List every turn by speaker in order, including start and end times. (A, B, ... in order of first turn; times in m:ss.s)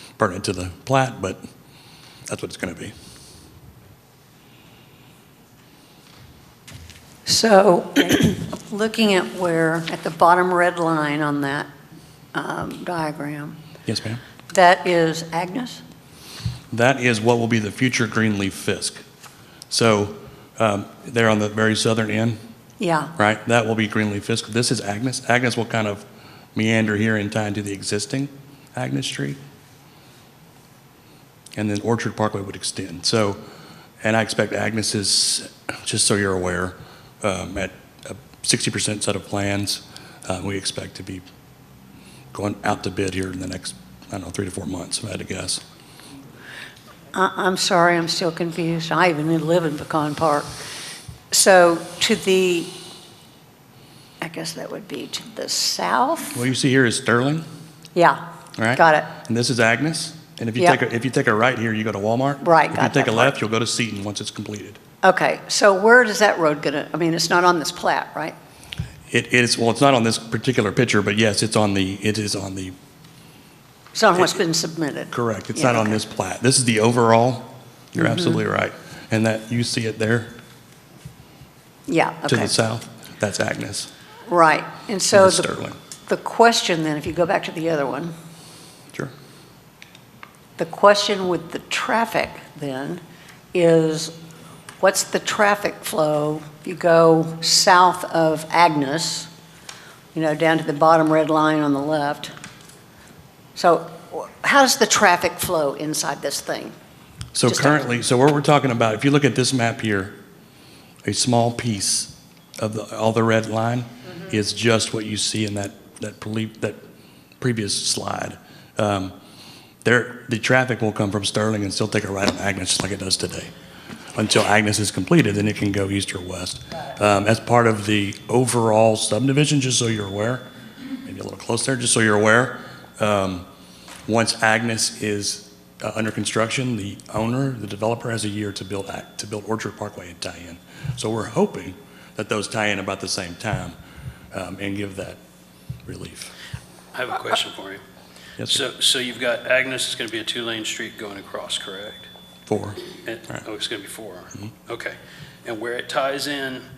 0:00.2-0:01.4 A
0:02.3-0:02.9 A
0:07.3-0:11.7 B
0:12.3-0:13.6 B
0:13.9-0:14.2 A
0:14.5-0:15.8 B
0:16.7-0:19.0 A
0:19.7-0:22.4 A
0:22.8-0:23.1 B
0:23.2-0:26.0 A
0:26.6-0:29.4 A
0:31.6-0:33.4 A
0:34.0-0:41.2 A
0:42.3-0:45.6 A
0:47.1-0:50.5 B
0:51.3-0:52.7 B
0:54.2-0:56.4 B
0:56.3-0:57.4 A
0:58.0-0:58.2 B
0:58.6-1:04.8 A
0:58.8-0:59.1 B
1:02.4-1:03.3 B
1:05.0-1:08.4 B
1:09.1-1:12.8 A
1:13.9-1:16.0 B
1:15.1-1:20.3 A
1:18.0-1:18.4 B
1:21.9-1:22.5 B
1:22.3-1:23.9 A
1:24.3-1:25.5 B
1:25.1-1:25.8 A
1:26.1-1:28.1 B
1:30.6-1:33.0 B
1:33.5-1:34.1 B
1:34.8-1:39.3 B
1:40.1-1:42.3 B
1:43.6-1:46.7 B
1:47.3-1:50.2 A
1:47.4-1:47.8 B
1:51.0-1:56.8 A
1:57.4-1:59.1 A
1:59.8-2:03.5 A
2:04.2-2:10.4 A
2:11.0-2:13.5 A
2:14.1-2:23.8 A
2:24.3-2:25.2 A
2:25.9-2:26.3 A
2:26.9-2:27.8 C
2:28.5-2:32.1 C
2:32.5-2:32.8 A
2:33.0-2:36.6 C